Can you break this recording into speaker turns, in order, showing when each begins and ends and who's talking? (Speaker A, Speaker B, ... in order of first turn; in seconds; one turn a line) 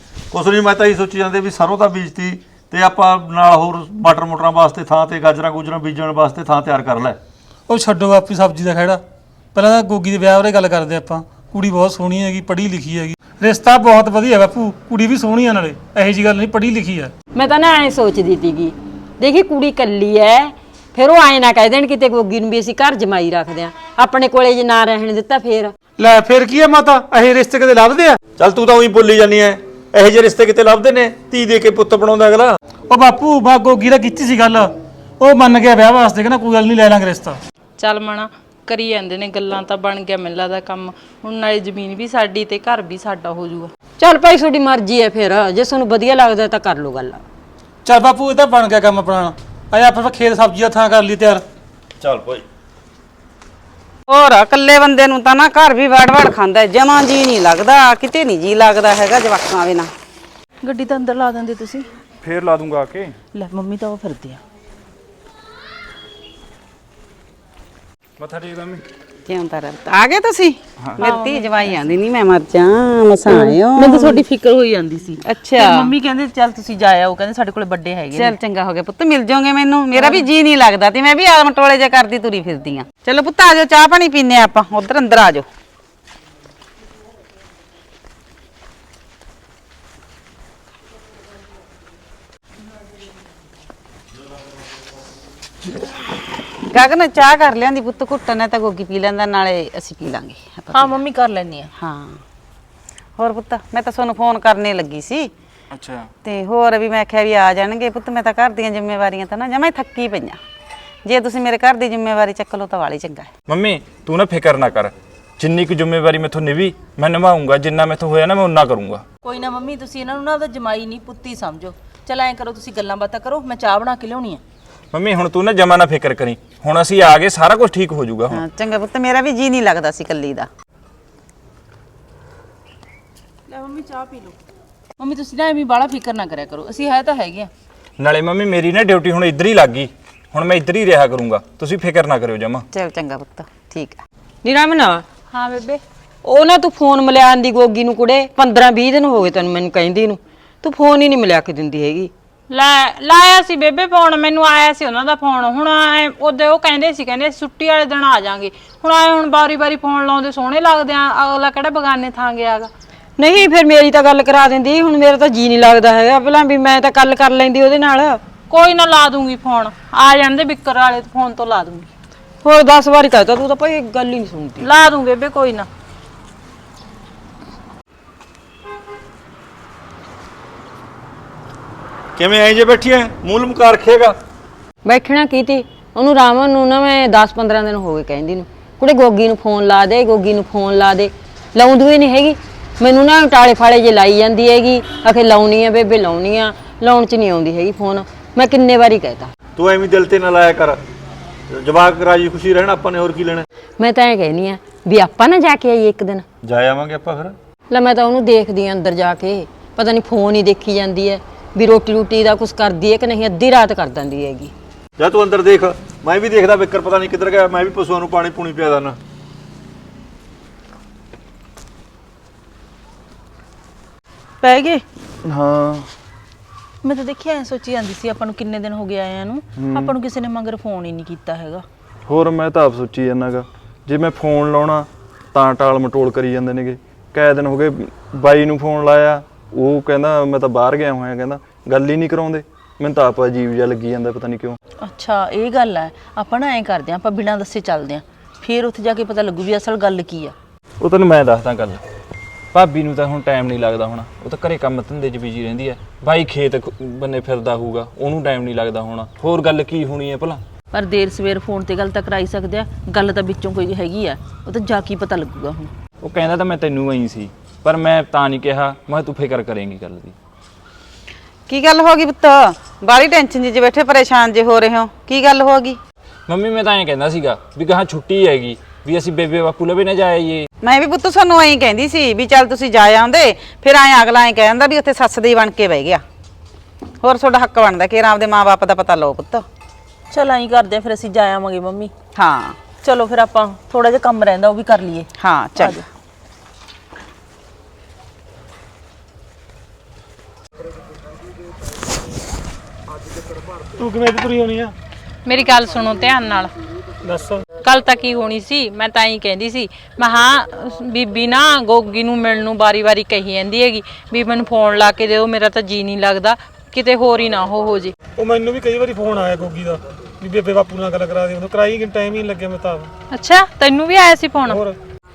Speaker A: 0.3-7.2
Speaker B: 7.7-9.0
Speaker B: 9.5-17.1
Speaker C: 17.3-25.7
Speaker B: 26.0-28.2
Speaker A: 28.4-32.6
Speaker B: 32.9-37.4
Speaker D: 37.8-43.7
Speaker C: 44.0-47.2
Speaker B: 47.9-51.4
Speaker A: 52.0-52.5
Speaker E: 54.1-59.9
Speaker F: 60.6-61.9
Speaker G: 62.2-63.2
Speaker F: 63.3-64.4
Speaker G: 68.2-68.8
Speaker E: 69.3-74.2
Speaker F: 71.0-71.8
Speaker F: 73.3-78.4
Speaker E: 75.3-75.9
Speaker E: 78.1-85.5
Speaker F: 79.9-80.3
Speaker E: 96.7-101.0
Speaker F: 100.7-101.7
Speaker E: 101.8-102.2
Speaker E: 103.2-105.3
Speaker G: 105.7-106.1
Speaker E: 106.2-110.4
Speaker E: 111.1-113.3
Speaker G: 113.5-119.0
Speaker F: 119.2-124.4
Speaker G: 124.9-128.4
Speaker E: 128.3-130.5
Speaker F: 133.5-134.3
Speaker F: 135.0-137.5
Speaker G: 138.0-142.7
Speaker E: 142.7-144.0
Speaker C: 144.4-145.0
Speaker D: 145.3-145.8
Speaker C: 146.2-152.1
Speaker D: 152.5-162.7
Speaker C: 163.2-168.2
Speaker D: 168.5-171.9
Speaker C: 172.4-174.7
Speaker D: 174.6-175.7
Speaker A: 182.2-184.2
Speaker C: 184.8-199.3
Speaker A: 199.6-200.8
Speaker A: 201.5-203.5
Speaker C: 203.8-206.2
Speaker A: 206.4-207.3
Speaker C: 207.7-214.5
Speaker A: 215.0-219.0
Speaker F: 224.4-224.8
Speaker H: 225.2-225.9
Speaker F: 226.8-231.7
Speaker H: 229.6-229.9
Speaker H: 232.1-244.6
Speaker F: 244.8-250.3
Speaker G: 250.8-251.8
Speaker G: 252.5-260.4
Speaker F: 260.7-265.7
Speaker G: 266.0-270.2
Speaker E: 271.5-275.8
Speaker G: 276.3-280.5
Speaker E: 280.6-286.0
Speaker E: 287.0-289.4
Speaker F: 290.1-291.9
Speaker E: 292.2-292.6
Speaker F: 292.8-295.9
Speaker E: 295.2-295.8
Speaker B: 303.8-304.7
Speaker D: 305.2-306.5
Speaker B: 307.0-307.4
Speaker D: 307.6-317.9
Speaker B: 318.2-322.9
Speaker D: 323.1-324.6
Speaker B: 324.5-324.8